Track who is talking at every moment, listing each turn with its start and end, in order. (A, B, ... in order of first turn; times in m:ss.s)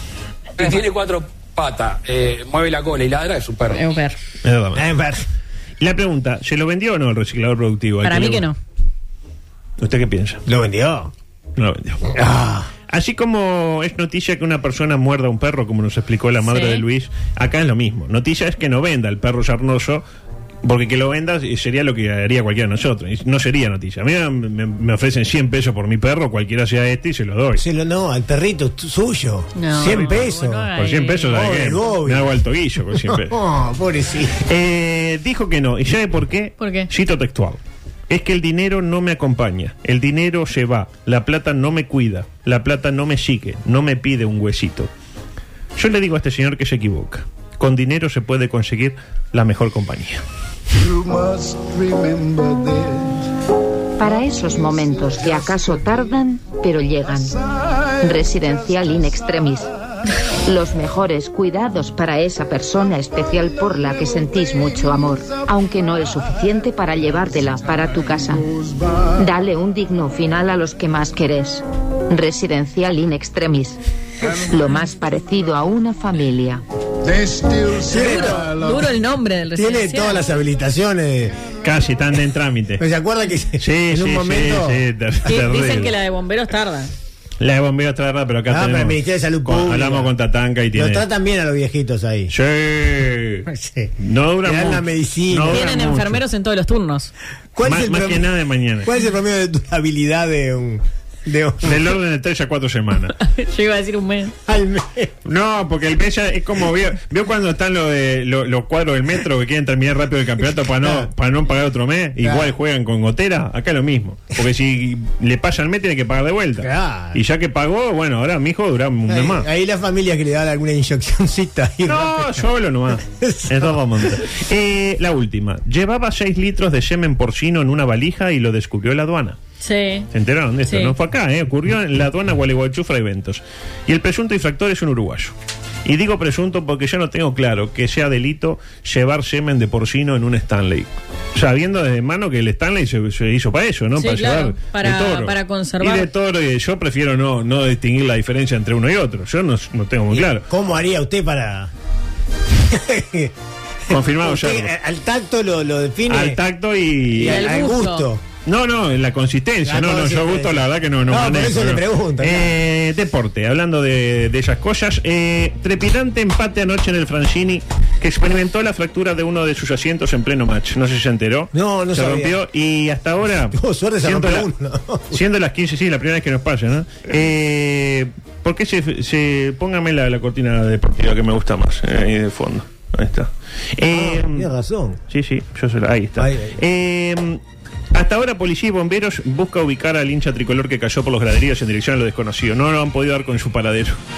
0:00.6-0:03.8 A
0:03.7-0:04.2 B
0:04.4-0:04.9 C
0:04.7-0:05.2 D
0:05.8-0:08.5 C
0:08.0-0:08.6 B
0:09.8-0:10.4 C
0:10.4-0:11.1 D
0:11.6-0:12.1 C
0:12.1-0:12.7 D
0:12.9-0:20.0 C
0:16.4-0:16.8 B
0:20.6-0:27.6 C
0:27.6-0:30.7 D
0:29.6-0:31.4 B
0:29.9-0:30.1 C
0:30.7-0:33.4 C
0:31.3-0:32.4 D
0:32.9-0:34.4 D
0:34.4-0:44.9 C
0:36.6-0:36.9 B
0:45.8-0:50.2 C
0:54.0-0:57.4 E
0:58.0-0:59.7 E
1:00.4-1:08.5 E
1:09.1-1:16.6 E
1:17.7-1:18.6 D
1:17.9-1:20.2 B
1:19.5-1:21.4 D
1:21.6-1:22.8 C
1:22.8-1:24.8 D
1:23.6-1:25.9 C
1:25.2-1:26.9 B
1:27.4-1:31.0 C
1:28.5-1:30.1 D
1:30.7-1:32.3 D
1:32.3-1:33.5 C
1:33.5-1:35.8 D
1:34.0-1:36.2 C
1:35.5-1:37.1 B
1:37.6-1:38.3 D
1:37.6-1:38.9 C
1:38.8-1:41.9 D
1:41.6-1:43.2 C
1:43.2-1:44.3 B
1:44.4-1:45.1 D
1:45.2-1:59.5 C
1:50.8-1:51.1 D
1:52.2-1:52.5 D
1:56.6-1:57.2 D
1:59.1-2:02.5 D
2:01.8-2:09.4 C
2:03.2-2:04.2 D
2:09.6-2:10.1 B
2:10.1-2:15.3 C
2:10.6-2:10.9 B
2:15.8-2:30.4 C
2:24.0-2:26.1 B
2:30.1-2:31.7 D
2:32.7-2:33.3 D
2:33.9-2:34.7 C
2:33.9-2:36.4 D
2:36.1-2:37.5 C
2:37.1-2:38.2 D
2:37.2-2:38.1 B
2:38.4-2:54.5 C
2:39.6-2:42.6 D
2:51.5-2:52.4 D
2:53.5-2:55.2 D
2:55.1-3:04.5 C
3:03.9-3:05.0 D
3:05.1-3:07.4 C
3:06.2-3:06.6 D
3:07.9-3:14.0 C